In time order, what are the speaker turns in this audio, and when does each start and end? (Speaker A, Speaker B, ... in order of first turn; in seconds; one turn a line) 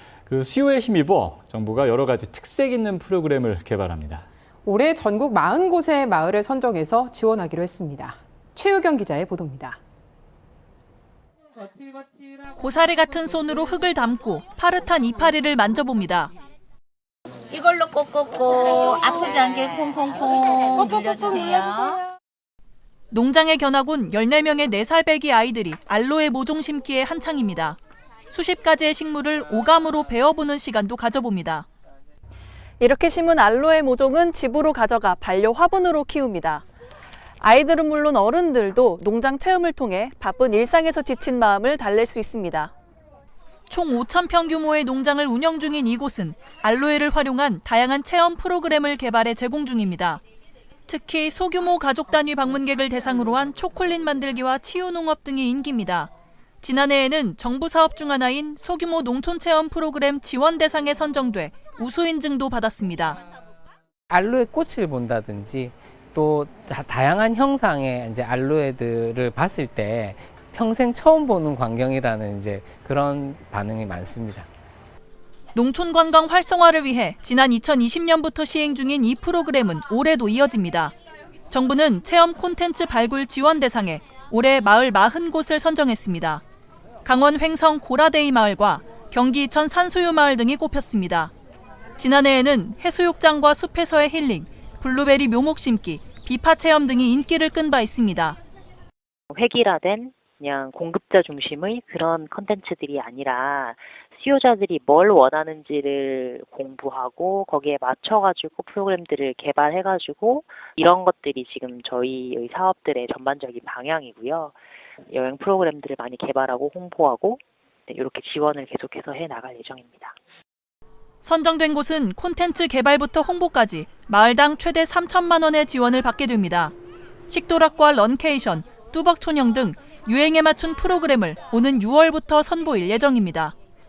Speaker A: 0.3-4.3
Speaker B: 4.7-9.8
Speaker C: 12.6-16.3
Speaker D: 17.5-22.0
Speaker C: 23.1-27.8
Speaker C: 28.3-31.7
Speaker E: 32.8-36.6
Speaker E: 37.4-42.7
Speaker C: 43.7-50.2
Speaker C: 50.9-56.1
Speaker C: 56.6-63.2
Speaker F: 64.1-74.5
Speaker C: 75.5-80.9
Speaker C: 81.5-86.4
Speaker C: 87.0-91.3
Speaker C: 92.0-98.4
Speaker G: 99.3-114.6
Speaker G: 115.1-120.2
Speaker C: 121.2-126.7
Speaker C: 127.3-133.6